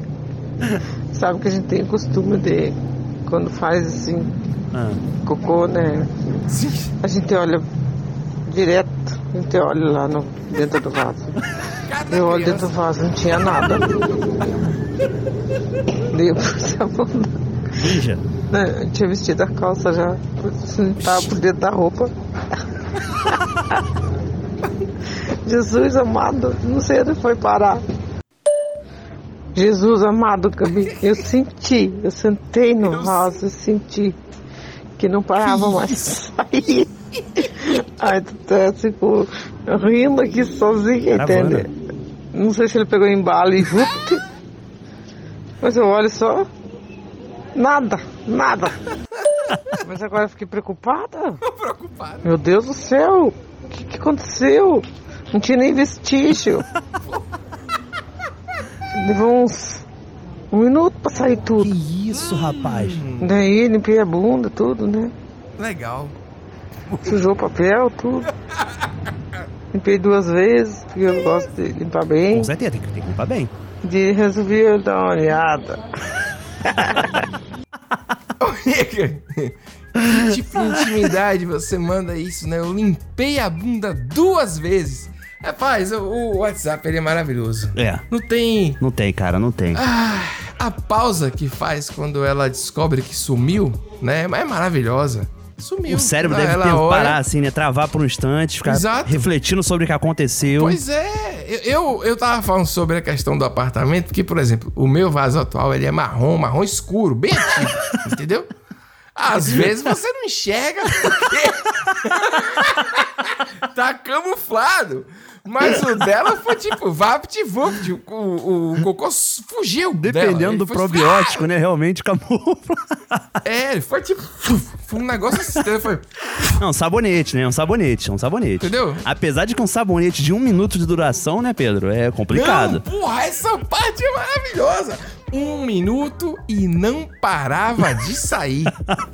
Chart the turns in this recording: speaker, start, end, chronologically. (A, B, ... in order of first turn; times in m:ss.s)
0:01.1-0:04.3 A
0:04.7-0:05.0 B
0:05.2-0:06.1 A
0:06.5-0:06.9 C
0:07.0-0:07.7 A
0:08.4-0:11.3 A
0:11.8-0:12.7 C
0:12.1-0:14.0 A
0:16.1-0:17.4 A
0:17.8-0:18.2 B
0:18.5-0:22.1 A
0:25.4-0:27.8 A
0:29.6-0:34.2 A
0:32.8-0:33.3 C
0:35.0-0:41.7 A
0:41.1-0:41.7 B
0:42.3-0:44.2 A
0:45.6-0:46.5 A
0:47.6-0:48.8 A
0:49.8-0:51.4 A
0:51.4-0:52.3 C
0:52.2-0:56.6 A
0:59.0-0:59.8 A
1:00.5-1:01.7 A
1:01.6-1:03.0 B
1:02.3-1:03.3 C
1:03.2-1:05.1 A
1:05.6-1:06.2 C
1:07.0-1:08.3 A
1:09.7-1:12.5 A
1:12.3-1:13.5 B
1:13.8-1:15.8 A
1:16.8-1:17.1 A
1:18.4-1:28.8 C
1:27.8-1:28.0 B
1:28.8-1:29.8 B
1:29.7-1:37.2 C
1:35.9-1:40.8 B
1:38.6-1:39.3 C
1:40.6-1:48.5 C
1:49.2-2:01.4 C
2:00.0-2:03.3 B
2:03.4-2:06.1 C
2:06.6-2:12.8 B
2:08.6-2:09.0 C
2:12.3-2:18.8 C